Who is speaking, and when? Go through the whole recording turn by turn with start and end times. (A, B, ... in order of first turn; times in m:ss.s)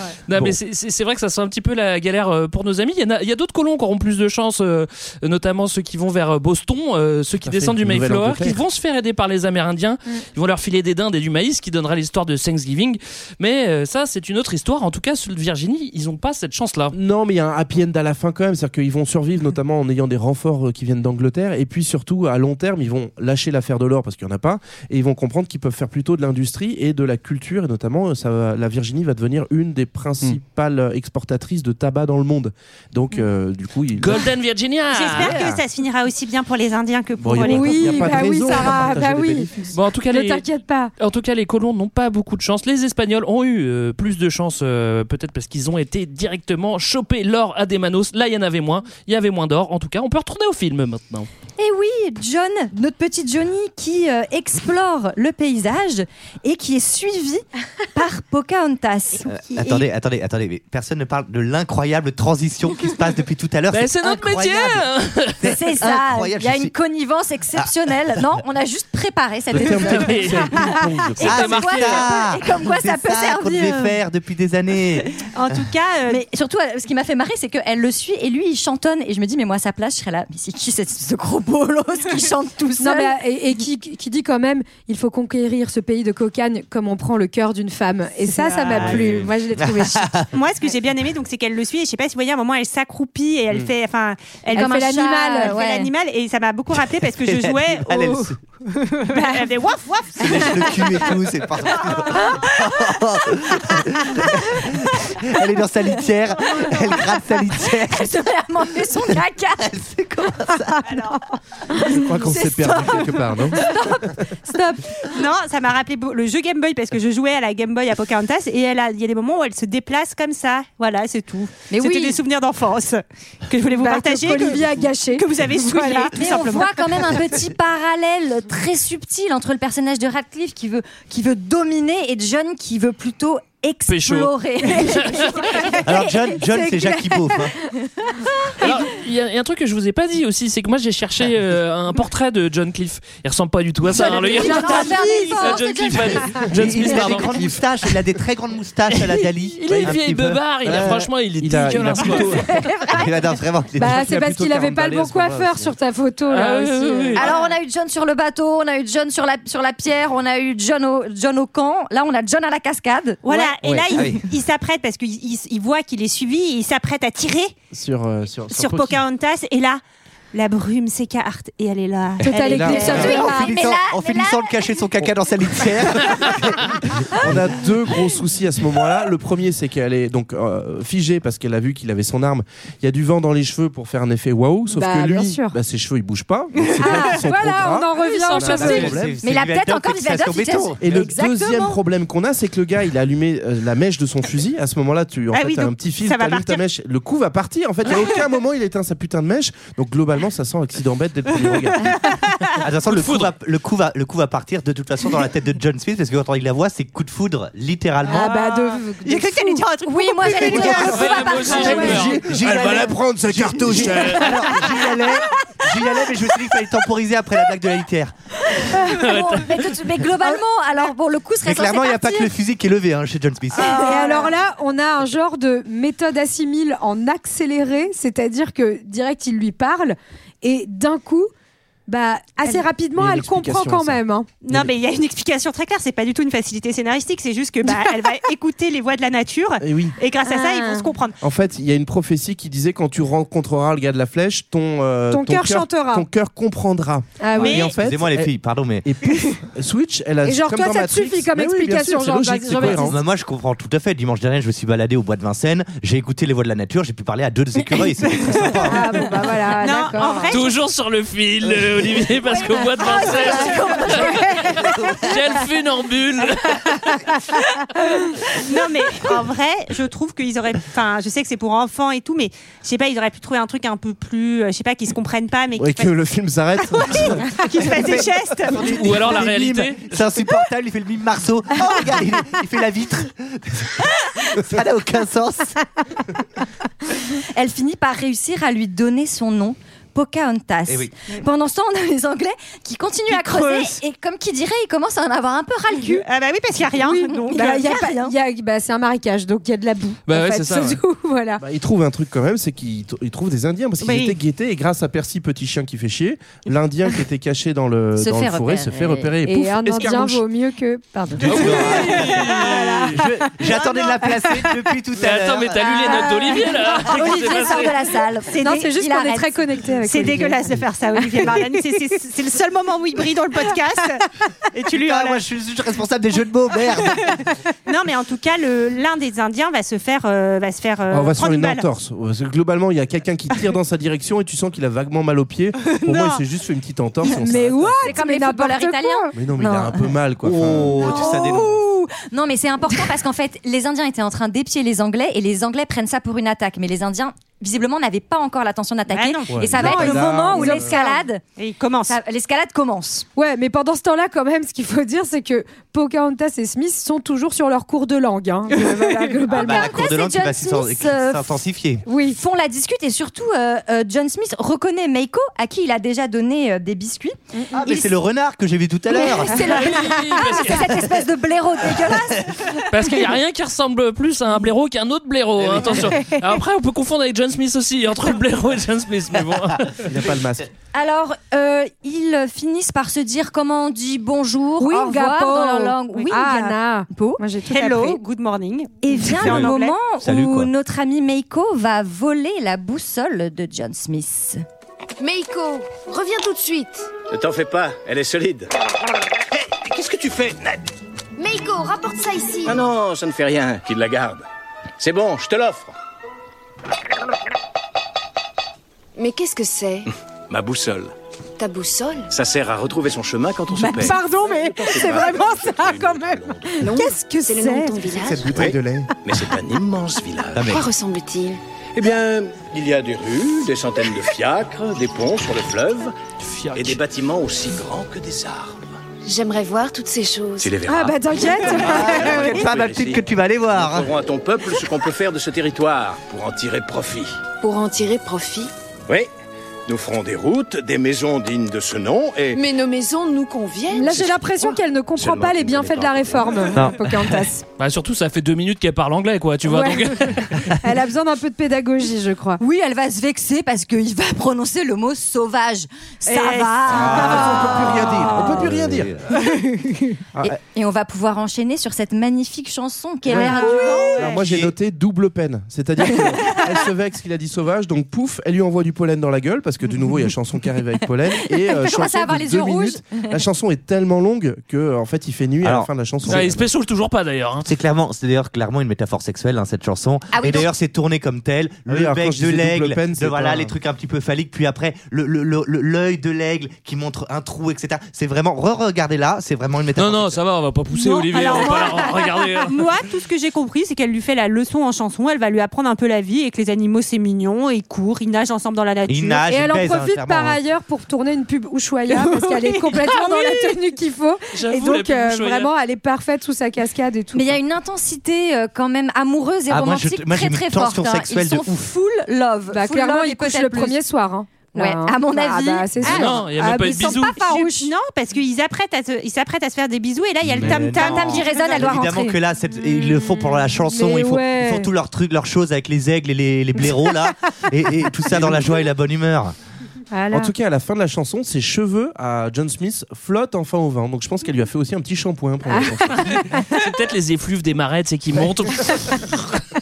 0:00.3-0:16.9 A
0:07.4-0:08.6 B
0:16.9-0:34.3 B
0:34.0-0:35.6 A
0:34.9-0:38.3 C
0:37.2-0:39.8 B
0:37.4-0:39.5 D
0:39.7-0:40.4 A
0:40.1-0:40.9 D
0:41.0-0:51.3 A
0:51.6-0:59.9 E
0:59.2-1:04.8 F
1:03.7-1:05.4 A
1:05.4-1:06.7 F
1:05.4-1:14.0 E
1:07.5-1:08.4 F
1:09.5-1:11.5 B
1:09.7-1:12.1 A
1:11.2-1:15.2 F
1:15.3-1:16.2 C
1:16.1-1:23.2 E
1:22.8-1:30.2 D
1:28.3-1:29.0 C
1:28.8-1:30.3 F
1:30.3-1:41.0 C
1:34.5-1:35.9 E
1:34.5-1:35.6 D
1:37.0-1:38.4 F
1:40.2-1:48.2 F
1:47.7-1:49.8 E
1:48.9-1:50.9 F
1:50.9-1:51.2 C
1:51.7-1:55.0 E
1:51.8-1:53.8 B
1:55.0-2:07.2 C
2:01.7-2:02.2 E
2:03.8-2:06.1 D
2:06.1-2:17.1 E
2:13.9-2:15.4 A
2:15.8-2:17.5 F
2:18.6-2:27.6 A
2:23.9-2:26.1 E
2:24.0-2:26.4 D
2:24.5-2:25.1 C
2:26.5-2:31.1 F
2:26.6-2:27.4 B
2:29.1-2:32.4 A
2:29.7-2:30.0 B
2:30.6-2:32.6 B
2:32.5-2:33.4 E
2:32.9-2:34.0 F
2:33.8-2:35.7 B
2:33.8-2:37.2 D
2:36.3-2:37.3 A
2:37.1-2:43.5 E
2:43.2-2:47.5 C
2:43.9-2:44.2 F
2:47.7-2:49.0 B
2:48.5-2:49.8 C
2:50.3-2:53.0 C
2:52.2-2:53.5 D
2:52.4-2:53.2 B
2:52.6-2:54.8 E
2:52.7-2:57.4 F
2:57.1-3:09.2 B
3:04.7-3:05.5 D
3:06.8-3:09.0 D
3:08.4-3:10.8 F
3:09.2-3:11.8 E
3:10.8-3:22.0 B
3:15.3-3:16.6 C
3:22.1-3:22.6 C
3:22.6-3:28.5 F
3:22.8-3:23.3 A
3:28.0-3:29.7 D
3:28.1-3:31.7 C
3:29.8-3:32.1 E
3:30.4-3:34.6 B
3:30.8-3:32.6 A
3:31.5-3:38.1 F
3:33.8-3:34.4 A
3:38.6-3:42.3 E
3:38.9-3:39.7 A
3:41.4-3:44.1 F
3:43.6-3:44.3 C
3:43.6-3:51.3 D
3:51.9-3:54.3 D
3:52.9-3:54.7 B
3:54.4-4:01.2 C
3:59.6-4:00.0 B
4:00.2-4:00.9 D
4:01.2-4:08.3 B
4:05.1-4:06.0 D
4:07.2-4:07.7 D
4:07.4-4:07.8 C
4:07.6-4:08.9 F
4:08.8-4:13.0 B
4:10.2-4:13.0 D
4:12.6-4:19.1 F
4:18.6-4:20.3 D
4:19.6-4:20.6 C
4:20.3-4:26.9 A
4:22.9-4:24.0 E
4:23.9-4:24.6 D
4:24.6-4:25.0 F
4:28.4-4:35.9 C
4:35.6-4:37.9 B
4:36.7-4:38.7 C
4:38.4-4:45.6 F
4:38.6-4:39.8 A
4:47.3-4:56.0 E
4:55.9-4:57.7 C
4:56.8-5:01.4 D
4:57.3-4:58.1 E
5:00.0-5:00.8 A
5:01.4-5:10.2 B
5:03.8-5:04.2 C
5:08.0-5:09.2 E
5:09.2-5:12.2 D
5:11.2-5:16.3 F
5:11.3-5:13.0 A
5:15.0-5:17.7 A
5:16.3-5:19.3 E
5:16.9-5:17.6 D
5:18.3-5:18.6 C
5:18.4-5:20.4 D
5:19.8-5:25.2 C
5:24.7-5:27.2 F
5:27.6-5:31.7 C
5:30.9-5:37.9 B
5:35.7-5:36.2 C
5:37.0-5:39.1 D
5:37.8-5:39.9 E
5:39.1-5:40.8 B
5:40.2-5:41.6 F
5:40.8-5:51.2 E
5:48.9-5:49.6 C
5:49.3-5:50.7 B
5:49.5-5:51.0 D
5:51.4-5:52.0 C
5:51.9-5:53.0 E
5:53.2-5:59.8 D
5:59.3-6:01.8 F
5:59.3-6:01.4 E
6:01.8-6:02.2 D
6:02.1-6:07.9 E
6:07.5-6:09.8 F
6:08.9-6:12.3 E
6:09.3-6:10.8 A
6:12.7-6:19.8 A
6:15.4-6:15.7 F
6:19.8-6:20.5 B
6:20.7-6:27.2 E
6:24.6-6:28.0 D
6:27.5-6:29.8 C
6:28.8-6:34.4 E
6:29.1-6:30.5 F
6:35.0-6:36.9 G
6:37.1-6:38.5 H
6:39.5-6:40.6 H
6:41.2-6:42.6 G
6:42.4-6:44.2 H
6:44.8-6:45.7 H
6:49.0-6:49.9 G
6:50.3-6:50.9 H
6:51.4-6:52.1 G
6:52.1-6:56.7 H
6:53.6-6:57.9 D
6:56.6-6:58.3 G
6:58.0-6:58.9 F
6:58.1-6:58.9 B
6:58.3-7:00.6 H
7:00.3-7:00.6 F
7:00.4-7:01.4 G
7:01.7-7:05.9 H
7:06.2-7:06.8 A
7:06.5-7:08.7 H
7:09.0-7:10.5 G
7:10.4-7:17.2 H
7:10.7-7:12.5 D
7:11.7-7:13.9 F
7:17.4-7:18.5 G
7:19.7-7:22.4 H
7:22.3-7:24.0 G
7:23.7-7:27.4 D
7:23.9-7:26.7 H
7:26.5-7:26.9 F
7:27.6-7:30.5 A
7:29.4-7:32.4 D
7:32.4-7:38.0 E
7:36.0-7:38.4 C
7:36.6-7:39.1 F
7:36.8-7:38.9 B
7:40.2-7:44.1 E
7:43.1-7:43.4 B
7:43.2-7:44.2 C
7:43.9-7:56.4 B
7:44.1-7:44.5 F
7:51.4-7:53.1 E
7:55.4-7:56.2 F
7:56.0-7:57.5 A
7:57.4-8:10.2 F
8:00.1-8:00.5 E
8:01.7-8:03.5 B
8:09.8-8:12.6 A
8:10.7-8:19.2 C
8:18.9-8:20.4 F
8:19.3-8:27.4 D
8:21.9-8:22.6 C
8:22.9-8:23.5 A
8:24.3-8:25.5 A
8:27.1-8:33.8 E
8:29.5-8:31.6 F
8:32.5-8:37.2 D
8:34.5-8:37.7 E
8:35.8-8:37.2 A
8:37.2-8:41.8 C
8:40.2-8:49.3 F
8:40.7-8:42.2 E
8:42.8-8:44.7 D
8:49.9-8:50.3 D
8:50.1-8:56.3 B
8:55.6-8:56.3 D
8:56.3-8:59.4 A